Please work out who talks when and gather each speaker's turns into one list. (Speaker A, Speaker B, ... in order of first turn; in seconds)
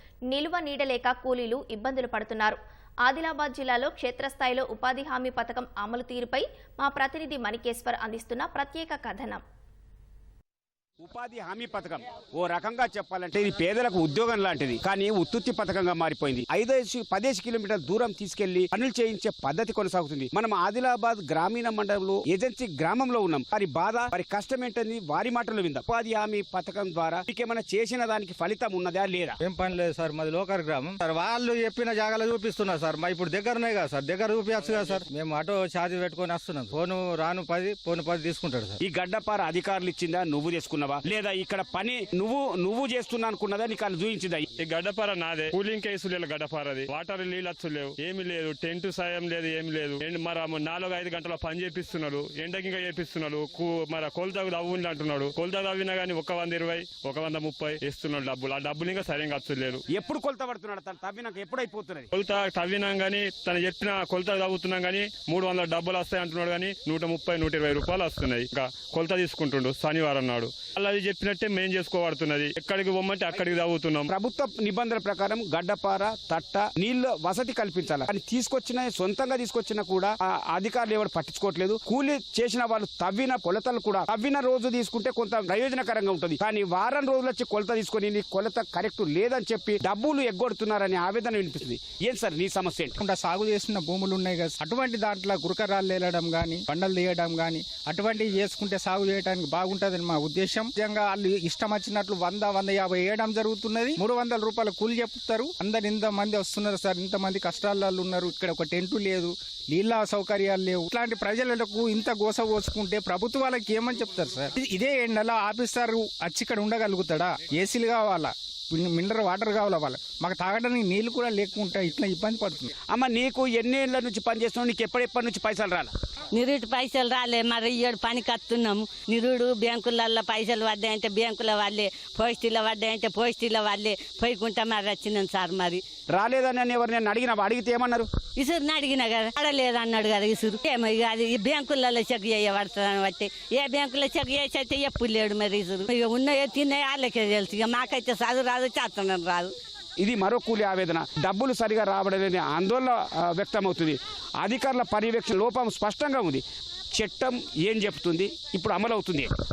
Speaker A: 0.3-9.4
Speaker B: 11.0-29.4, 38.8-44.5, 59.9-62.1, 74.1-93.0, 122.9-125.9, 136.1-138.1, 150.0-156.4, 156.9-159.3
Speaker C: 29.4-38.8
Speaker D: 44.6-59.8, 62.1-74.1
Speaker E: 93.0-122.7
Speaker F: 126.3-135.8, 138.4-149.5